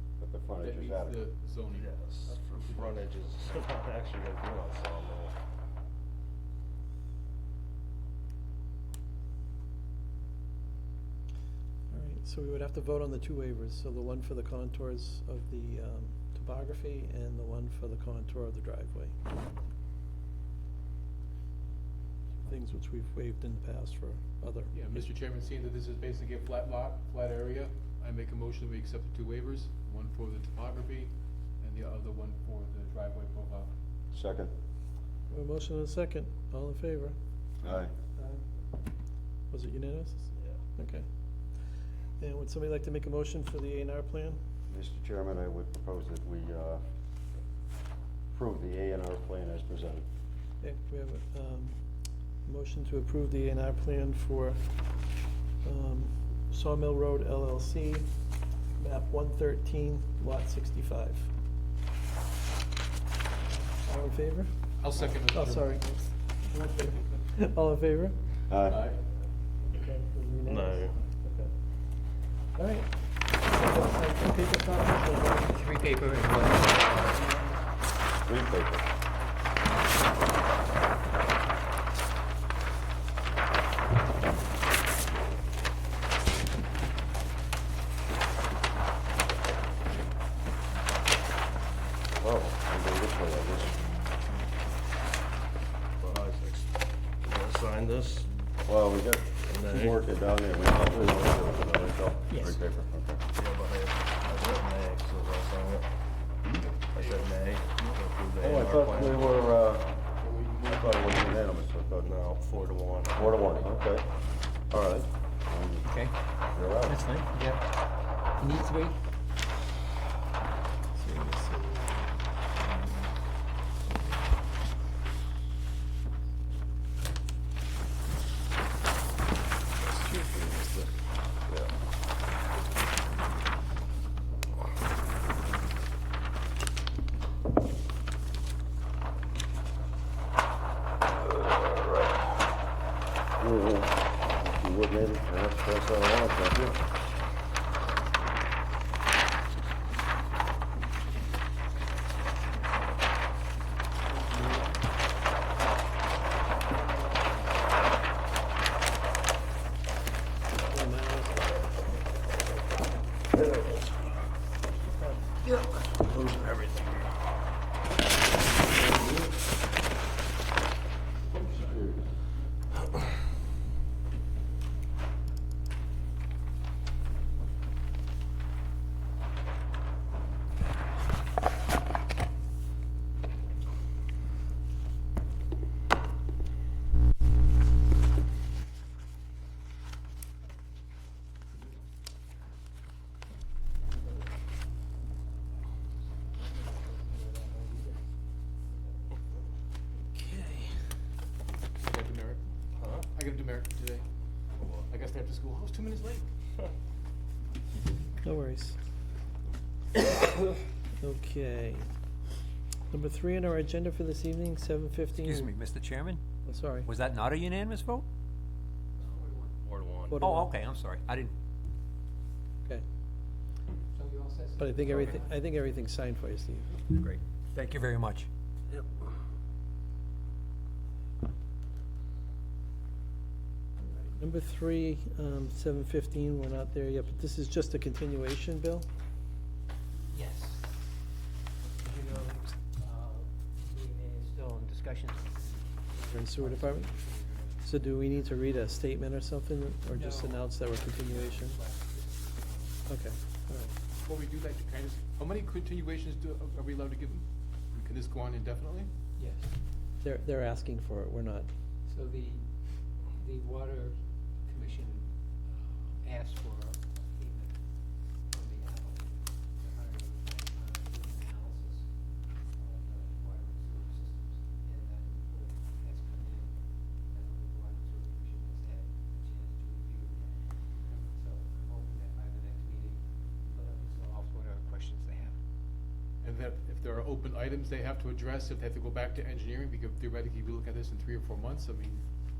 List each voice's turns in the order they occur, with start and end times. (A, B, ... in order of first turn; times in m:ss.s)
0:00.2-0:01.2 A
0:00.6-0:03.1 B
0:01.7-0:05.3 C
0:11.9-0:19.2 D
0:22.4-0:25.1 D
0:24.7-0:33.7 B
0:34.1-0:34.5 A
0:35.3-0:37.1 D
0:37.6-0:37.9 A
0:38.2-0:38.4 D
0:39.5-0:41.0 D
0:40.4-0:40.6 C
0:42.2-0:44.4 D
0:44.7-0:46.8 A
0:48.3-0:50.0 A
0:50.6-0:51.8 D
0:52.4-0:54.6 D
0:55.6-0:58.1 D
0:58.8-1:01.3 D
1:03.8-1:04.5 D
1:04.8-1:05.9 B
1:05.3-1:08.3 D
1:08.5-1:08.9 A
1:08.7-1:09.0 B
1:09.7-1:10.9 D
1:10.4-1:11.5 C
1:12.5-1:15.6 D
1:15.5-1:17.0 E
1:18.2-1:18.9 A
1:32.2-1:33.8 A
1:36.0-1:38.3 C
1:38.6-1:43.2 A
1:39.5-1:40.0 C
1:43.3-1:45.9 C
1:46.5-1:47.3 B
1:46.9-1:49.5 C
1:48.4-1:50.0 A
1:49.0-1:49.5 B
1:50.1-1:51.6 B
1:50.7-1:52.1 A
1:51.9-1:53.4 C
1:53.1-1:54.1 A
1:53.2-1:53.7 B
1:54.7-1:55.8 A
1:55.8-1:56.1 F
1:56.5-1:57.1 A
1:56.9-1:57.3 F
1:57.2-1:57.6 E
1:58.4-1:59.0 E
2:00.9-2:03.1 D
2:03.9-2:04.3 D
2:09.9-2:10.9 D
2:23.4-2:26.8 A
2:40.6-2:41.6 D
2:44.9-2:45.3 D
2:46.0-2:46.8 C
3:16.3-3:18.1 E
3:18.7-3:19.0 E
3:20.3-3:20.6 D
3:21.8-3:22.4 B
3:22.7-3:23.1 C
3:23.1-3:24.0 B
3:24.6-3:24.9 C
3:24.9-3:26.3 B
3:28.2-3:28.8 D
3:31.0-3:31.9 D
3:32.9-3:35.5 D
3:35.1-3:36.2 F
3:36.4-3:36.9 D
3:36.8-3:38.0 F
3:39.0-3:39.5 E
3:39.0-3:40.2 C
3:40.1-3:40.5 D
3:40.2-3:41.3 F
3:43.9-3:45.4 E
3:44.6-3:46.9 D
3:46.9-3:48.3 F
3:53.8-3:58.9 D
4:00.1-4:00.9 E
4:01.7-4:08.4 E
4:06.1-4:07.0 D
4:07.6-4:11.6 D
4:09.9-4:12.8 E
4:12.9-4:13.7 D
4:14.0-4:18.9 B
4:19.2-4:19.6 E
4:20.0-4:21.5 D
4:21.8-4:22.4 E
4:23.1-4:27.6 E
4:28.3-4:31.9 E
4:32.5-4:36.6 E
4:37.1-4:45.4 E
4:40.7-4:41.0 B
4:46.2-4:52.0 B